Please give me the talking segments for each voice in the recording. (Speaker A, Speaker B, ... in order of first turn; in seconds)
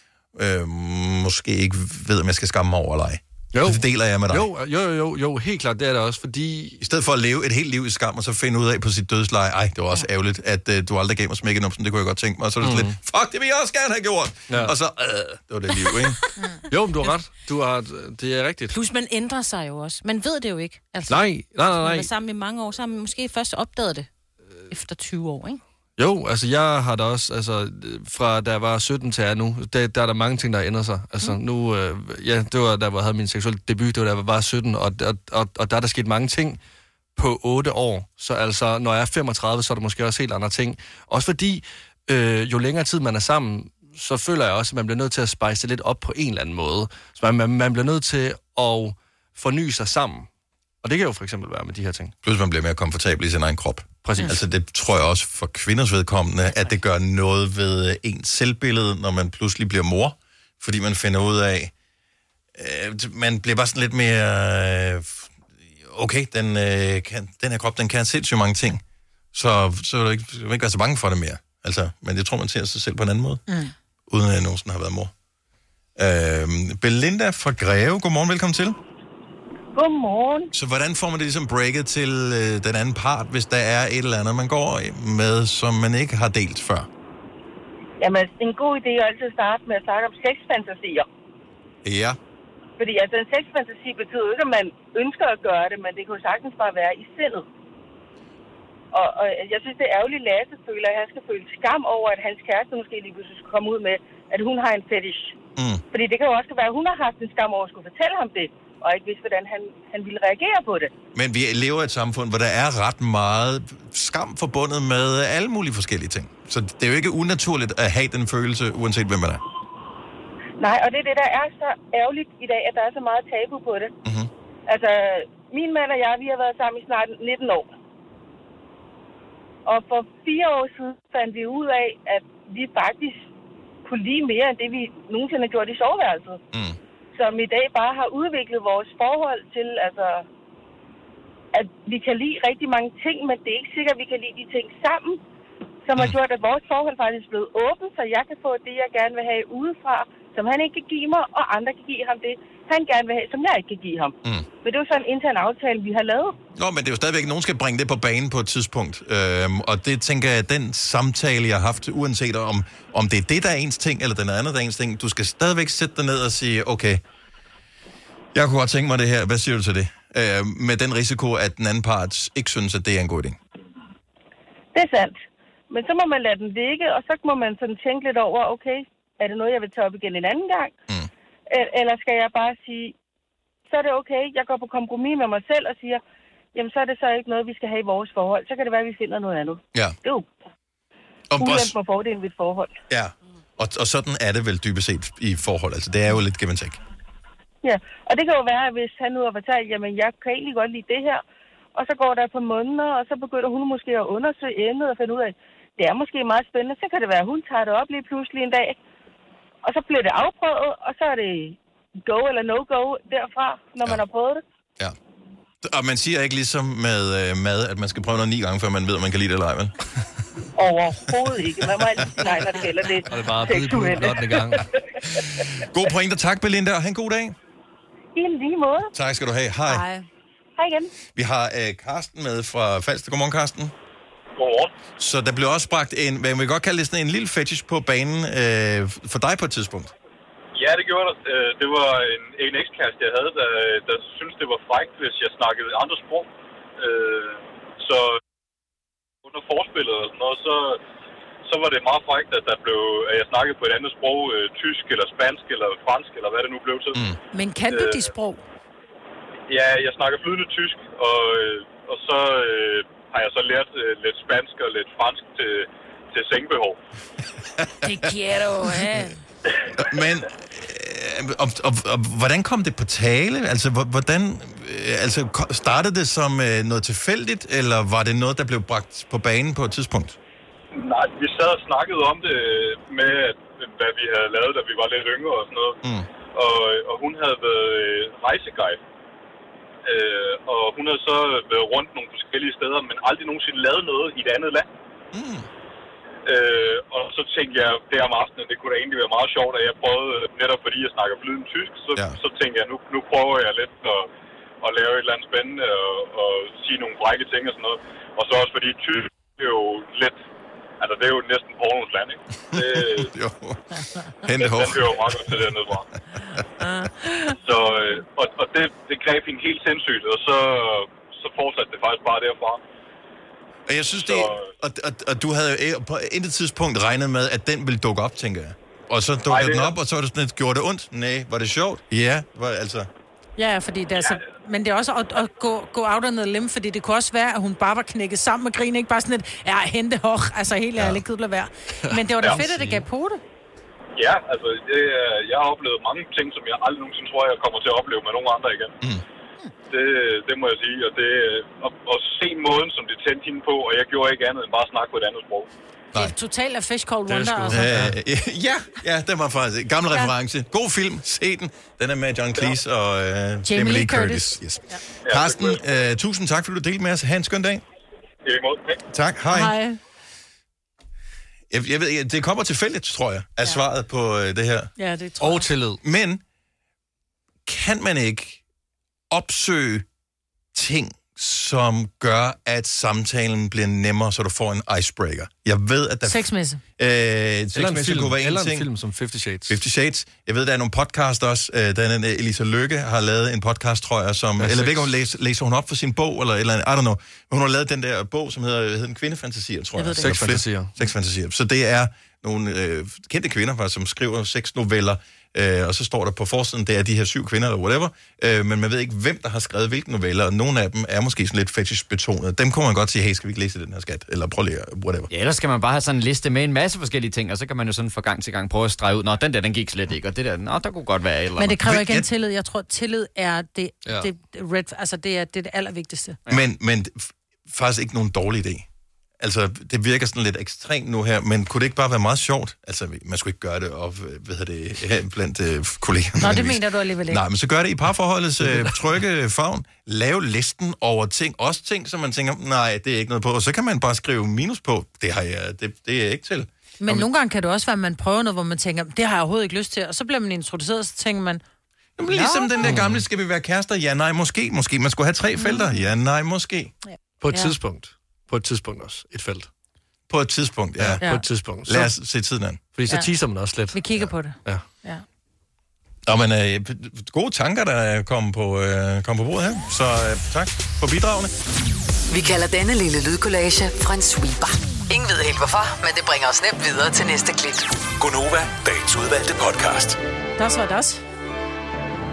Speaker A: 0.3-4.5, 6.8-16.2, 52.2-61.7, 62.5-65.3, 65.8-68.8, 69.3-73.4, 74.1-75.1, 76.0-78.8, 80.5-86.9, 91.8-92.2, 105.5-105.8, 111.1-119.4, 124.0-124.3, 136.5-136.8, 156.6-167.0, 168.3-173.4, 191.3-191.7, 192.9-196.8, 215.6-219.8, 221.8-222.3, 225.6-227.3, 228.9-229.8, 231.1-233.7, 235.0-239.9, 267.8-268.1, 269.7-280.2, 285.8-286.1, 295.1-295.5, 312.5-316.8, 323.7-332.9, 357.5-367.6, 368.9-369.6, 371.5-374.7, 375.8-376.2, 377.4-378.4, 379.1-379.9, 380.5-388.7, 389.5-415.1, 421.6-422.1, 426.3-428.6, 429.2-447.1, 452.0-456.7, 460.1-461.0, 461.6-462.6, 466.1-471.3
Speaker B: 3.5-6.8, 12.6-12.9, 14.5-14.7, 16.7-18.8, 21.1-22.1, 26.0-36.6, 37.1-50.3, 50.8-52.1, 54.0-54.4, 223.1-224.7, 341.9-342.8, 357.1-357.9, 375.2-375.8, 387.5-389.6, 394.4-394.9, 400.0-400.7, 452.6-453.0, 457.2-459.5, 460.8-461.9, 462.7-464.6
Speaker C: 18.7-24.1, 24.7-25.6
Speaker D: 79.7-80.5, 88.0-91.1, 92.8-97.5, 98.9-105.3, 105.9-110.9, 120.6-123.9, 124.7-127.7, 129.7-133.2, 133.8-136.4, 137.1-140.2, 141.5-145.2, 145.8-156.3, 174.7-175.2, 175.7-180.7, 181.5-182.9, 183.7-186.0, 186.5-190.3, 191.4-192.8, 197.6-201.2, 201.7-208.8, 209.7-214.4, 220.6-225.4, 228.1-228.9, 230.6-230.9
Speaker E: 229.7-230.0, 257.3-258.4, 267.8-269.2, 333.4-343.2, 355.9-357.7, 363.5-364.8, 369.3-369.8, 374.8-375.5, 386.0-386.6, 399.8-400.1, 421.4-426.2, 436.2-437.2, 446.8-451.4, 452.0-452.7, 455.4-455.7, 456.9-457.5, 463.7-465.0, 480.4-481.0
Speaker F: 234.3-234.7, 240.5-248.2, 249.2-250.8, 251.4-257.0, 257.7-258.1, 259.5-266.8, 280.7-285.8, 286.3-288.8, 289.8-294.7, 296.2-304.1, 304.6-310.2, 310.8-313.1, 314.4-315.9, 317.3-322.6, 324.0-324.5, 329.3-329.7, 344.0-348.7, 349.7-355.5, 365.1-365.6, 368.2-368.8
Speaker G: 415.1-421.6
Speaker H: 472.1-477.7
Speaker I: 478.0-480.0